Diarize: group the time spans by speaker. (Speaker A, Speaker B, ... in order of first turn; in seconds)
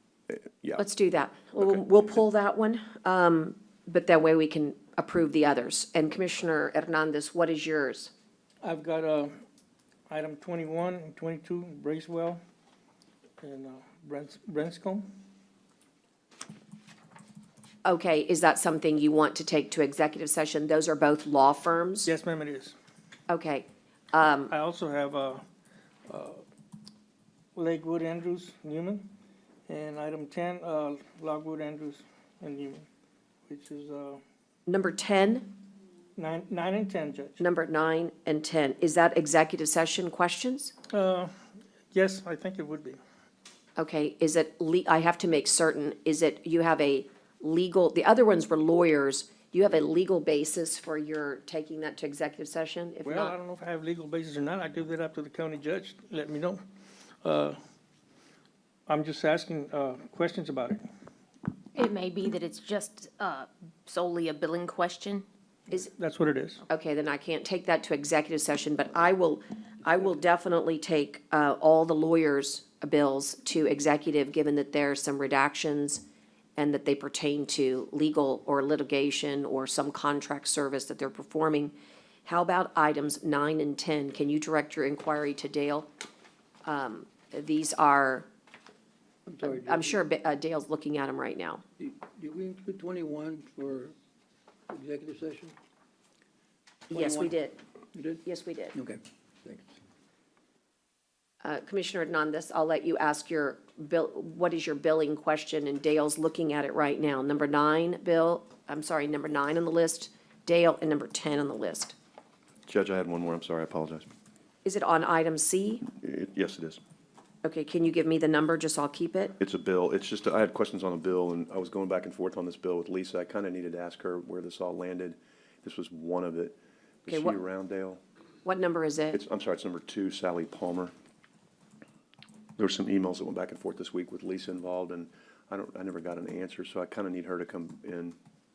Speaker A: 0.3-0.8, 112.7-114.1, 115.9-116.8, 119.4-128.0, 129.1-130.9, 132.6-138.1
Speaker B: 0.8-8.1, 17.8-22.1, 23.3-24.5, 34.7-35.5, 37.4-40.7, 43.8-53.3, 66.7-76.0, 76.6-81.7, 82.2-85.9, 86.6-88.3, 89.4-91.6, 96.9-97.6, 98.2-98.8, 101.4-111.9, 114.6-115.8, 117.4-119.3, 127.1-127.4, 128.4-129.2
Speaker C: 8.6-9.4, 10.1-12.4, 13.4-15.0, 22.0-22.7, 24.4-25.4, 26.1-26.4, 27.5-29.1, 29.7-32.9, 33.5-34.2, 36.1-37.4, 40.9-41.4, 41.9-43.0, 53.0-56.6, 57.2-57.6, 58.9-60.8, 65.7-66.6
Speaker D: 61.7-65.2
Speaker E: 89.3-90.0, 91.8-93.9, 94.7-95.5, 96.9-97.3, 97.9-98.2, 98.7-99.7